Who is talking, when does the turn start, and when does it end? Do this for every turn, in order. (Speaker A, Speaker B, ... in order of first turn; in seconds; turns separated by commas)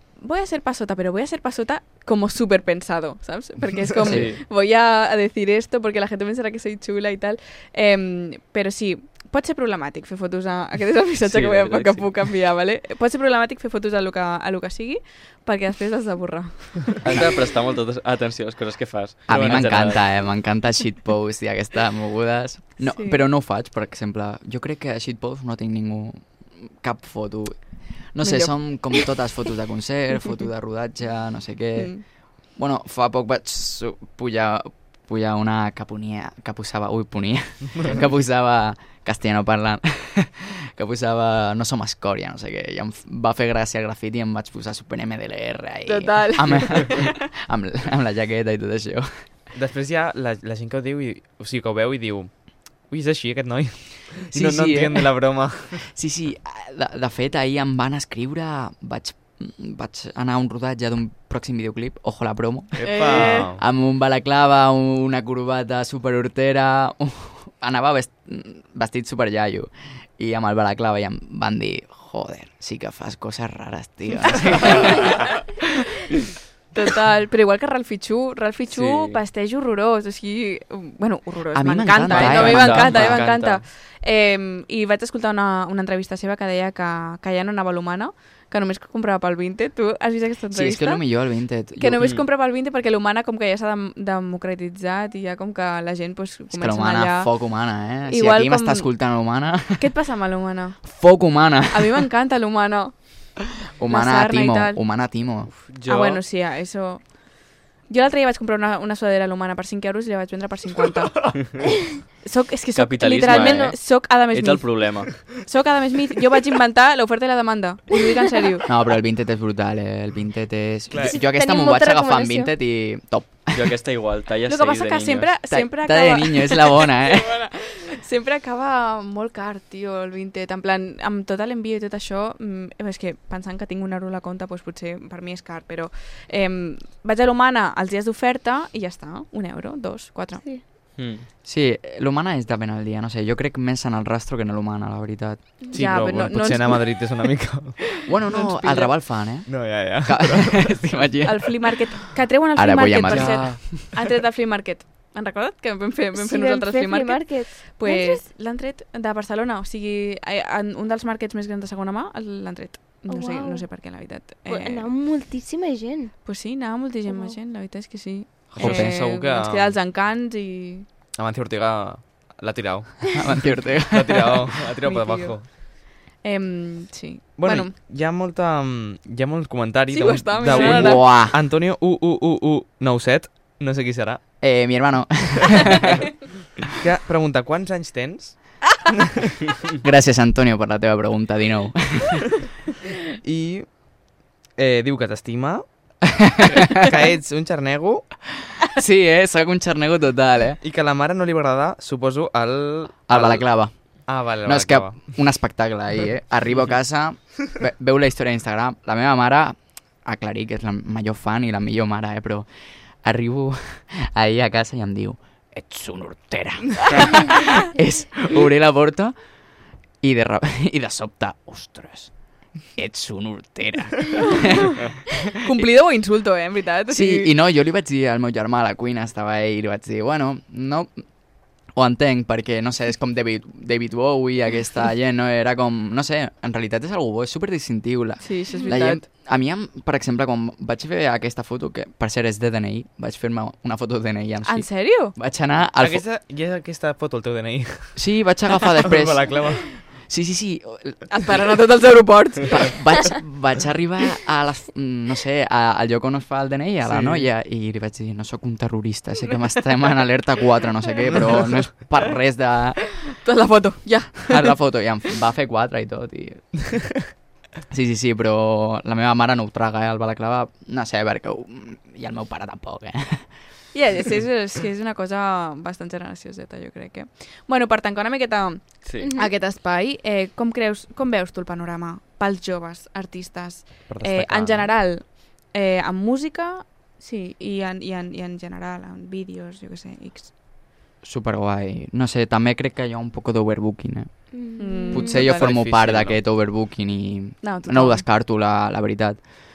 Speaker A: 0.2-17.0, Speaker B: 4.0-4.4, Speaker C: 4.0-4.3, Speaker B: 11.2-12.2, Speaker B: 17.0-20.0, Speaker C: 19.3-27.6, Speaker A: 22.8-23.2, Speaker C: 28.1-32.0, Speaker A: 28.2-29.0, Speaker A: 31.8-32.0, Speaker C: 32.5-49.2, Speaker A: 45.9-47.1, Speaker D: 49.5-55.9, Speaker C: 54.3-75.2, Speaker D: 62.7-63.6, Speaker A: 62.8-63.5, Speaker A: 76.7-91.0, Speaker B: 78.7-79.2, Speaker C: 81.5-83.2, Speaker B: 82.1-83.6, Speaker C: 90.5-92.0, Speaker A: 91.8-97.4, Speaker C: 96.5-99.9, Speaker A: 98.1-99.0, Speaker A: 99.7-101.0, Speaker C: 100.8-102.0, Speaker A: 101.7-104.8, Speaker C: 103.8-105.5, Speaker B: 105.5-106.2, Speaker A: 105.9-107.2, Speaker A: 107.8-111.6, Speaker A: 112.2-118.7, Speaker B: 112.7-115.2, Speaker E: 113.3-113.8, Speaker C: 118.7-123.7, Speaker D: 120.9-121.2, Speaker E: 121.0-122.5, Speaker B: 123.5-125.3, Speaker A: 124.5-140.4, Speaker C: 125.5-127.4, Speaker B: 141.0-141.3, Speaker C: 141.4-145.4, Speaker A: 145.7-147.1, Speaker D: 145.7-147.8, Speaker C: 148.1-151.5, Speaker A: 148.3-148.9, Speaker D: 149.4-151.1, Speaker A: 151.2-164.9, Speaker C: 152.5-153.8, Speaker D: 153.1-153.5, Speaker E: 156.2-158.2, Speaker E: 163.1-163.7, Speaker E: 164.4-166.2, Speaker A: 166.2-170.9, Speaker E: 167.1-167.4, Speaker D: 168.5-169.8, Speaker C: 168.6-169.0, Speaker D: 171.1-173.1, Speaker C: 173.1-174.5, Speaker D: 173.9-175.5, Speaker A: 174.8-175.6, Speaker A: 176.2-177.7, Speaker D: 177.4-184.2, Speaker A: 179.9-181.0, Speaker C: 180.5-181.4, Speaker C: 184.4-186.0, Speaker D: 186.8-188.4, Speaker C: 189.8-192.3, Speaker D: 193.2-193.8, Speaker D: 194.6-195.7, Speaker C: 196.2-196.9, Speaker D: 196.5-198.1, Speaker C: 198.6-200.6, Speaker D: 200.6-203.5, Speaker C: 203.1-203.7, Speaker D: 204.1-205.1, Speaker C: 204.4-212.5, Speaker C: 213.0-219.1, Speaker C: 220.0-222.1, Speaker C: 222.8-224.8, Speaker A: 225.4-227.3, Speaker C: 226.9-230.9, Speaker C: 231.7-246.0, Speaker A: 238.2-239.0, Speaker A: 244.4-245.1, Speaker D: 245.8-248.0, Speaker C: 247.9-251.1, Speaker D: 248.6-249.8, Speaker A: 251.1-252.8, Speaker C: 252.5-262.8, Speaker D: 256.8-257.3, Speaker A: 263.2-264.6, Speaker C: 264.3-266.5, Speaker C: 267.7-273.3, Speaker A: 273.7-290.3, Speaker B: 278.8-279.1, Speaker E: 279.0-279.3, Speaker D: 283.9-284.7, Speaker C: 291.0-299.2, Speaker E: 294.3-295.2, Speaker A: 294.6-295.5, Speaker D: 295.1-296.2, Speaker A: 297.4-298.1